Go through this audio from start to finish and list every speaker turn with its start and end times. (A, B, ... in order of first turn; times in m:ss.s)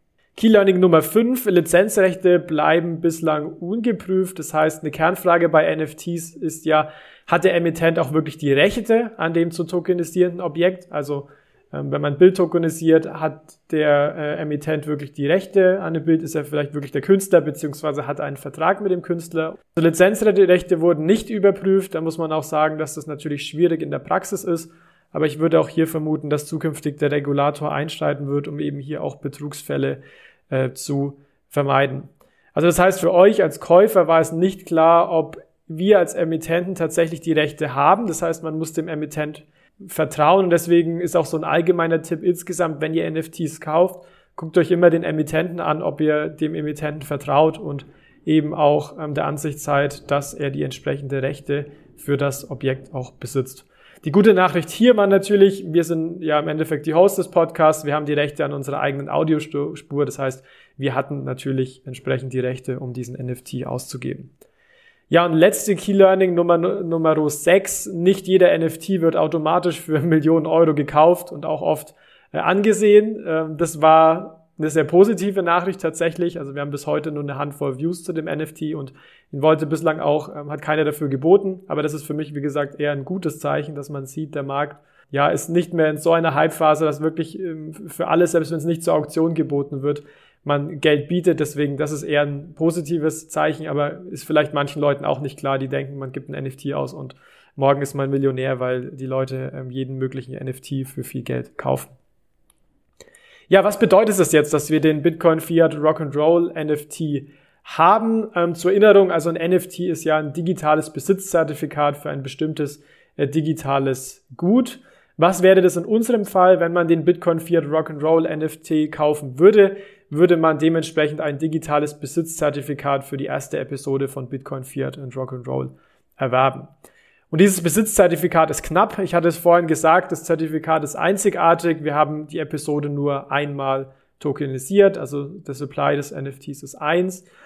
0:00.4-1:04.3 A
1:05.1-1:41.9 A
1:43.5-2:06.7 A
2:07.3-2:17.3 A